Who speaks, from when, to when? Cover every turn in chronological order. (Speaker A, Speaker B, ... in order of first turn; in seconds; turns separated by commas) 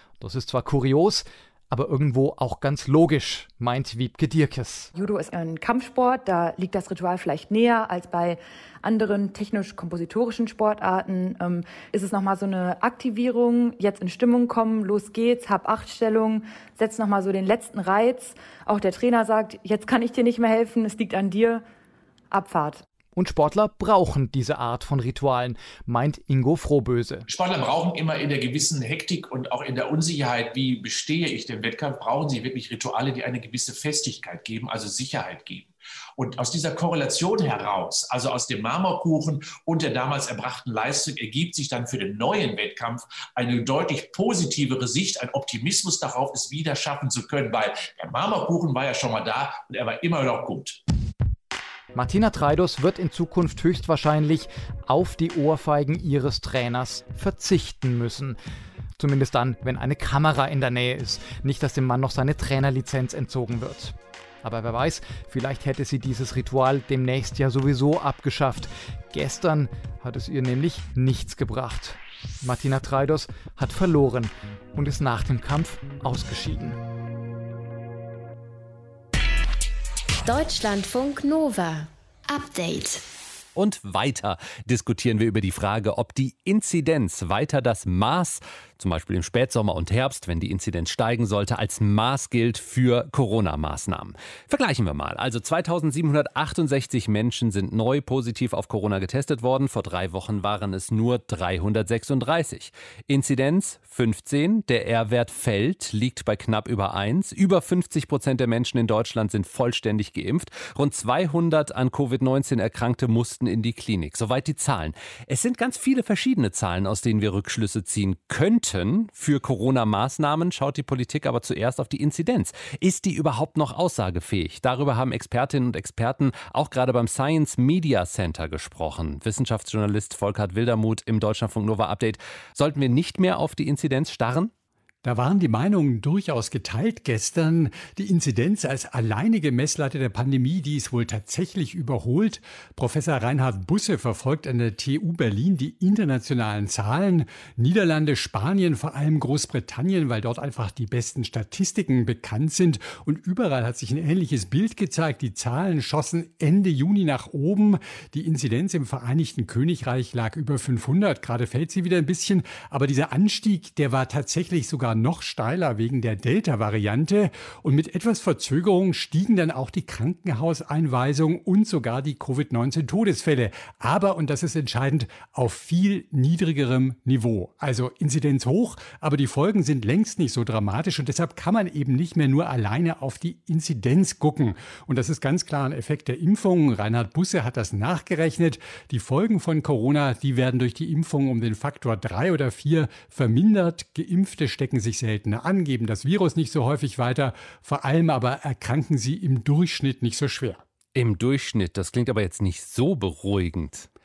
Speaker A: 0.2-4.9, Speaker B: 5.0-21.6, Speaker B: 22.3-22.8, Speaker A: 23.1-27.3, Speaker C: 27.3-50.8, Speaker A: 51.9-58.4, Speaker A: 59.0-76.8, Speaker D: 80.2-83.0, Speaker E: 83.6-134.5, Speaker F: 135.0-200.6, Speaker E: 200.9-203.9